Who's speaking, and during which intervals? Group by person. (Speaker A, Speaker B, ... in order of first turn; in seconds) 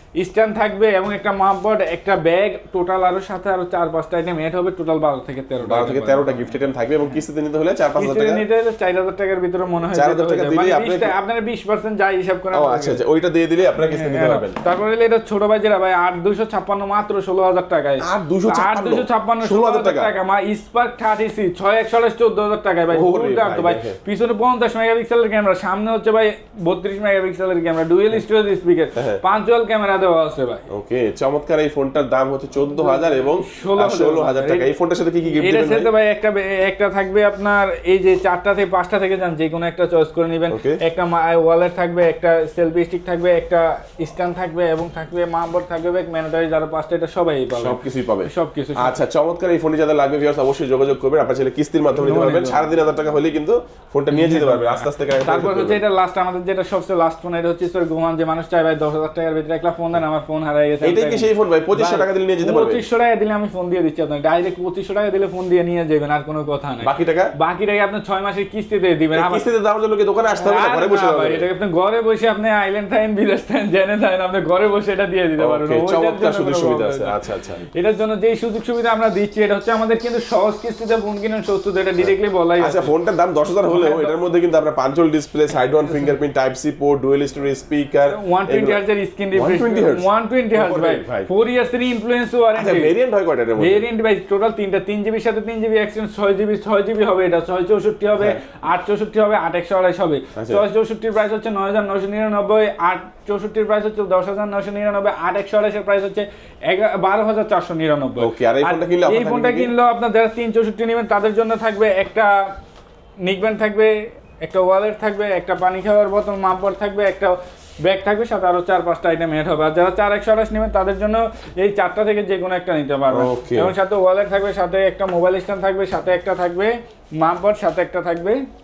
Speaker A: 0.2-6.5, 8.0-13.0, 13.8-30.6, 32.8-34.7, 35.3-48.9, 52.0-52.7, 54.1-69.4, 70.4-77.1, 77.7-82.9, 83.7-84.1, 85.9-86.1, 88.1-92.9, 93.6-112.5, 113.2-128.4
Speaker B: 5.6-8.4, 9.9-11.2, 12.5-14.6, 18.0-20.1, 22.9-24.0, 28.9-29.2, 30.7-35.9, 40.5-40.8, 47.5-55.8, 60.8-62.8, 66.8-67.3, 69.1-71.5, 75.4-77.6, 82.0-88.8, 89.3-91.3, 92.5-93.8, 100.3-100.6, 108.2-109.7, 123.1-123.7